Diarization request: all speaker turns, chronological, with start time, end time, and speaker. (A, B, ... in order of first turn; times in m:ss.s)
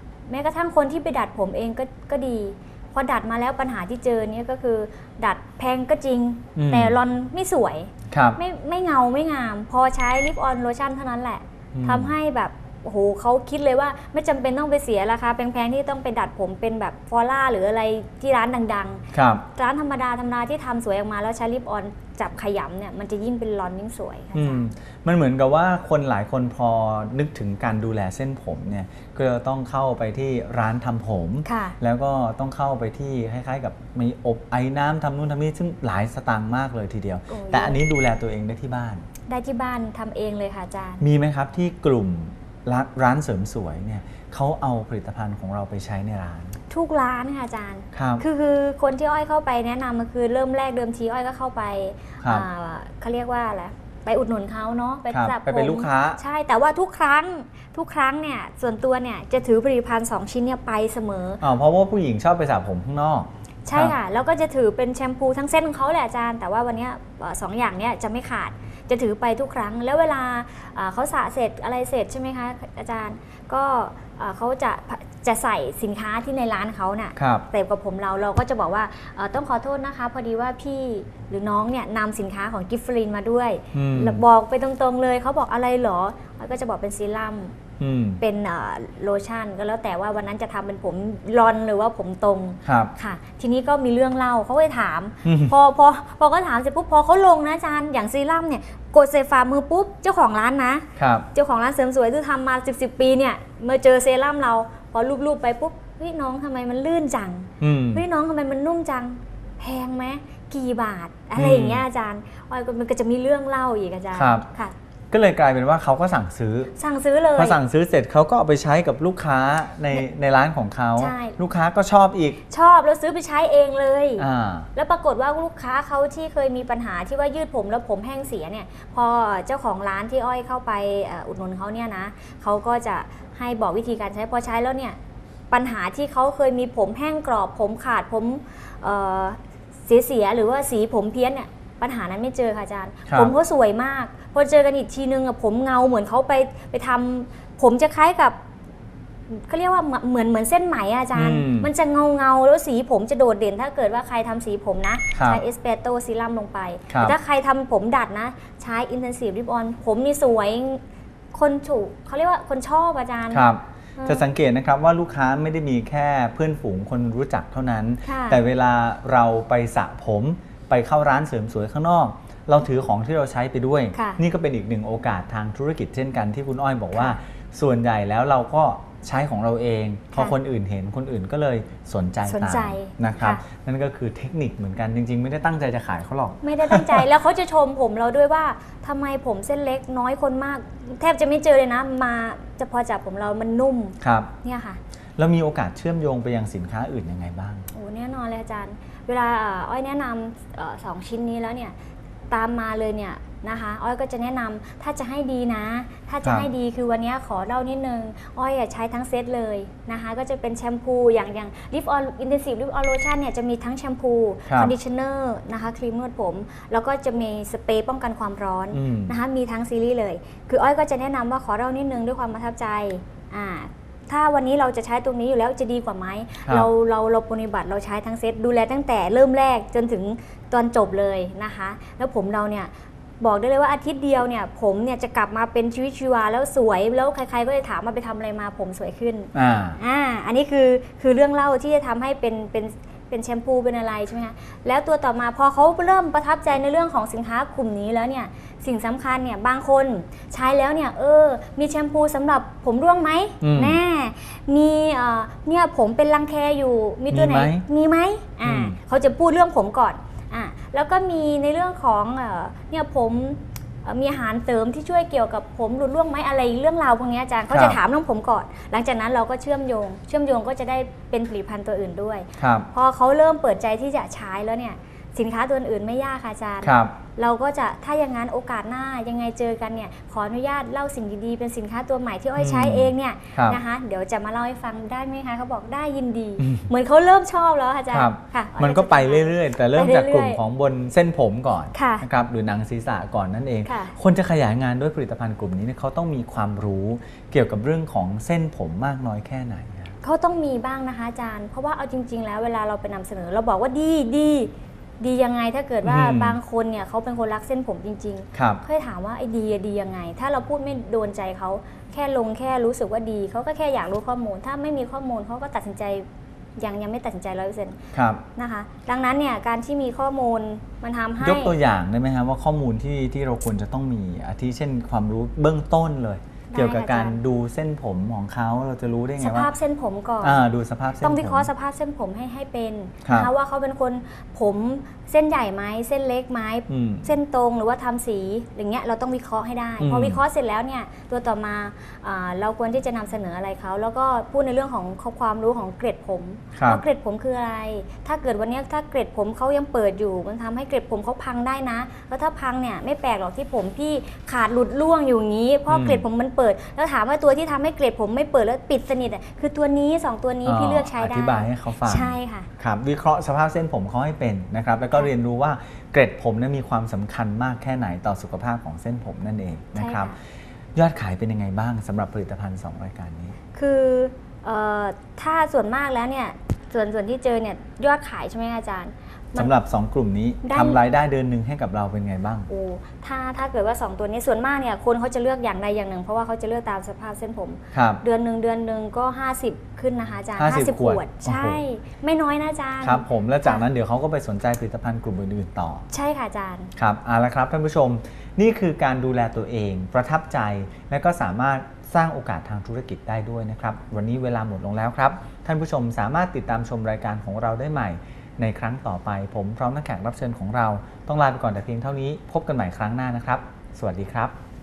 0:00.3-0:19.0 A
0:06.6-0:06.9 B
0:08.1-0:08.4 B
0:11.7-0:12.1 B
0:19.1-0:19.4 B
0:19.5-0:24.6 A
0:24.3-0:39.0 B
0:31.4-0:31.8 A
0:37.3-0:37.8 A
0:39.3-0:41.0 A
0:41.0-0:46.6 B
0:46.7-1:01.4 A
0:47.9-0:48.2 B
0:52.2-0:52.4 B
0:55.1-0:56.2 B
1:01.4-1:04.0 B
1:03.6-1:27.6 A
1:17.2-1:17.4 B
1:23.7-1:24.2 B
1:27.8-1:28.2 B
1:28.2-1:54.7 A
1:32.6-1:32.9 B
1:35.2-1:35.5 B
1:41.0-1:41.3 B
1:47.6-1:48.0 B
1:51.4-1:51.8 B
1:54.1-1:54.4 B
1:55.1-1:56.7 B
1:56.8-1:57.6 A
1:57.3-2:02.4 B
2:01.0-2:01.4 A
2:02.5-2:15.0 A
2:04.2-2:04.7 B
2:15.5-2:28.4 A
2:23.1-2:23.3 B
2:29.3-2:40.8 A
2:31.1-2:31.7 B
2:35.1-2:35.4 B
2:36.9-2:37.2 B
2:41.3-2:44.2 A
2:43.3-3:07.0 B
2:48.0-2:48.4 A
2:53.9-2:54.2 A
3:02.2-3:03.4 A
3:06.4-3:14.8 A
3:14.0-3:14.3 B
3:15.2-3:17.7 B
3:17.7-3:21.7 A
3:22.3-4:50.4 A
3:26.2-3:26.5 B
3:34.5-3:34.7 B
3:38.7-3:39.2 B
3:59.3-3:59.8 B
4:13.4-4:13.8 B
4:17.1-4:17.6 B
4:18.4-4:18.8 B
4:27.5-4:27.8 B
4:32.4-4:32.7 B
4:36.6-4:37.0 B
4:42.4-4:43.6 B
4:46.4-4:46.7 B
4:47.9-4:59.9 B
4:51.7-4:52.0 A
4:53.6-4:54.0 A
5:00.0-5:16.0 A
5:05.8-5:06.4 B
5:08.3-5:08.6 B
5:16.6-5:17.8 A
5:17.9-5:18.2 B
5:18.4-5:21.5 A
5:21.2-5:29.5 B
5:26.5-5:27.2 A
5:29.2-5:30.4 A
5:30.2-5:31.5 B
5:31.0-6:02.5 A
5:33.0-5:33.3 B
5:36.7-5:37.1 B
5:39.8-5:40.2 B
5:46.6-5:46.8 B
5:55.7-5:56.0 B
6:00.4-6:10.1 B
6:09.7-6:10.1 A
6:10.7-6:13.4 B
6:13.5-6:19.5 A
6:19.4-6:22.5 B
6:20.4-6:20.8 A
6:22.5-6:33.6 A
6:27.7-6:28.0 B
6:30.4-6:31.6 B
6:32.8-6:35.8 B
6:35.9-6:36.7 A
6:36.8-6:54.3 B